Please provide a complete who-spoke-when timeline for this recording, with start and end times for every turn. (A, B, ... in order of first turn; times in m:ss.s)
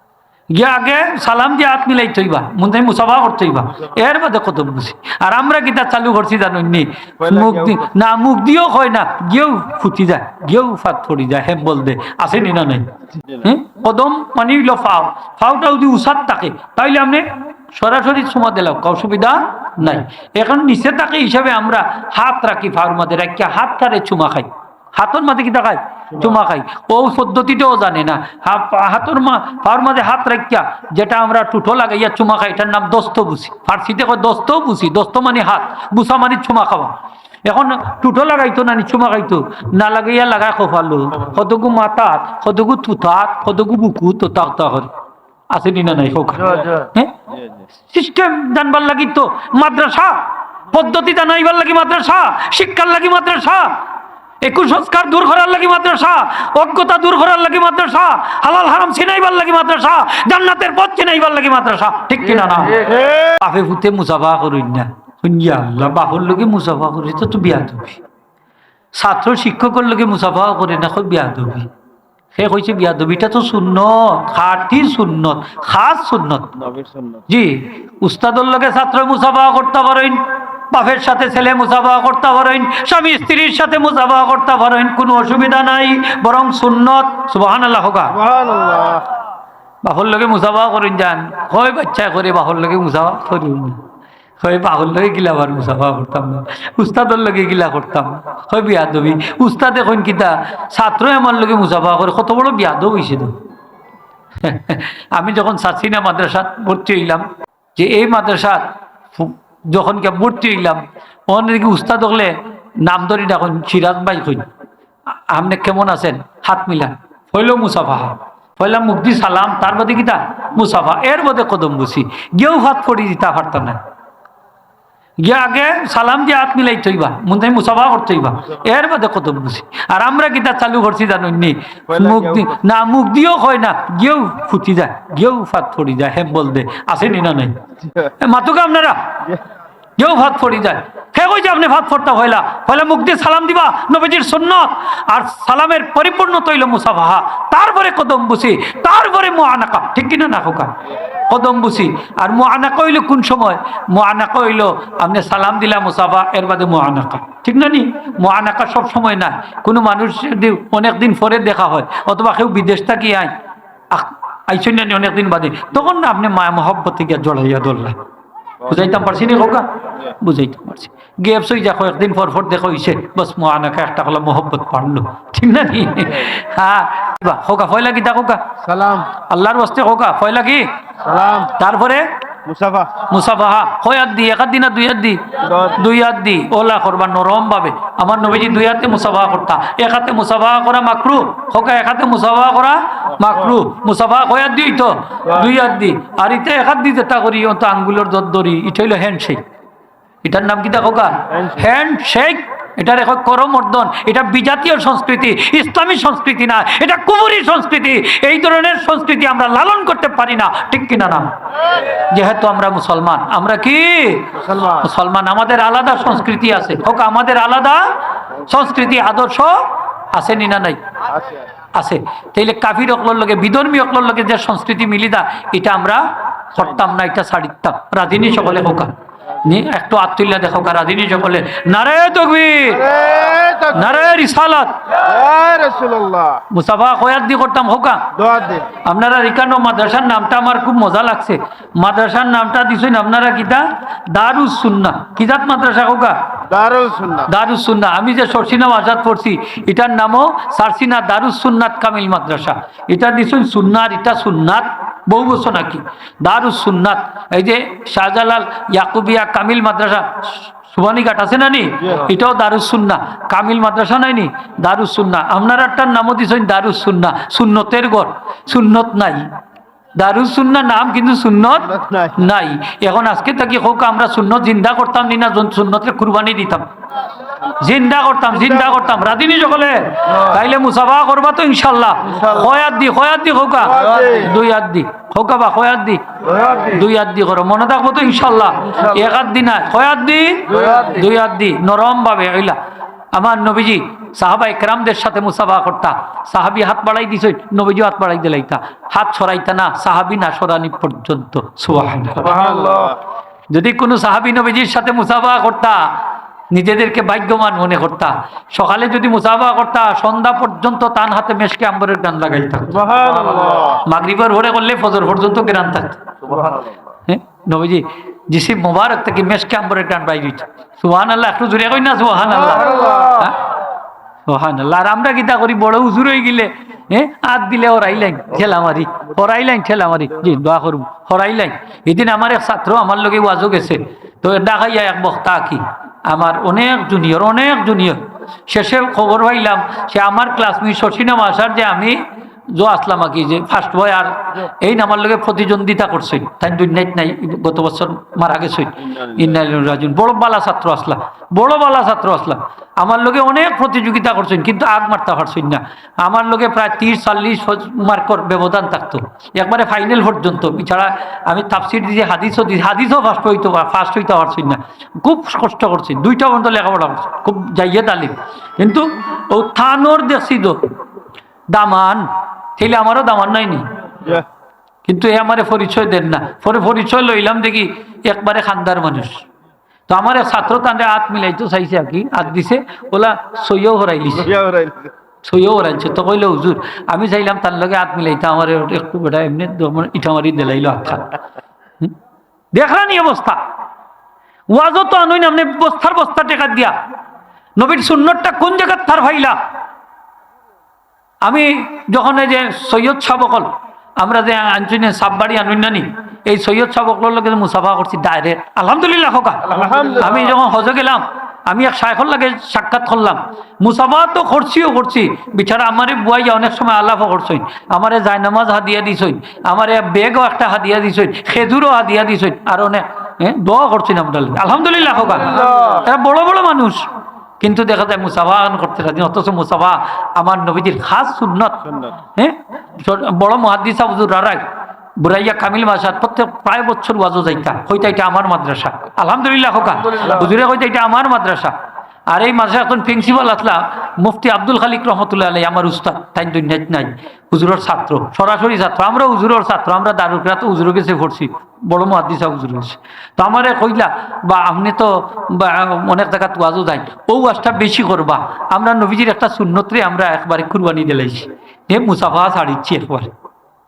0:00.5-0:37.0 A
0:07.4-0:07.8 B
0:37.5-0:44.9 A
0:45.5-0:47.3 A
0:47.9-0:53.8 A
0:54.4-1:08.0 A
1:02.9-1:03.2 B
1:09.0-1:11.7 A
1:12.3-1:16.6 A
1:16.6-1:17.2 B
1:17.3-1:28.2 A
1:28.2-1:29.1 B
1:29.8-1:33.8 A
1:34.4-1:43.4 A
1:44.4-1:54.5 A
1:55.3-2:03.8 A
2:05.2-2:19.3 A
2:12.0-2:12.5 B
2:20.0-2:43.3 A
2:43.9-2:48.0 A
2:48.6-2:58.6 A
2:58.6-2:59.1 B
2:59.1-3:00.7 A
3:01.0-3:01.5 B
3:01.4-3:02.1 A
3:02.5-3:03.0 B
3:03.0-3:19.4 A
3:05.5-3:05.8 B
3:20.2-3:31.3 A
3:31.9-3:37.8 A
3:38.4-3:40.8 A
3:41.8-3:53.0 A
3:52.8-3:53.9 B
3:53.7-3:54.8 A
3:55.0-3:56.4 B
3:56.5-3:58.1 A
3:58.2-3:58.7 B
3:58.8-4:06.2 A
4:06.5-4:07.3 B
4:07.2-4:29.3 A
4:30.0-4:36.7 A
4:31.7-4:32.2 B
4:37.4-4:52.6 A
4:43.8-4:44.2 B
4:53.1-5:02.5 A
5:02.2-5:03.0 B
5:03.5-5:05.9 A
5:06.5-5:12.9 A
5:12.8-5:13.8 B
5:13.7-5:16.4 A
5:17.1-5:23.4 A
5:22.6-5:23.3 B
5:24.3-5:42.0 A
5:42.5-6:10.6 A
6:11.5-6:13.7 A
6:14.8-6:19.2 A
6:19.9-6:24.4 A
6:24.3-6:24.9 B
6:25.2-6:31.2 A
6:32.5-6:33.4 A
6:34.5-6:36.8 A
6:37.6-6:39.4 A
6:41.2-7:06.9 A
6:49.5-6:50.1 B
7:05.4-7:05.7 B
7:07.4-7:21.5 A
7:22.1-7:43.1 A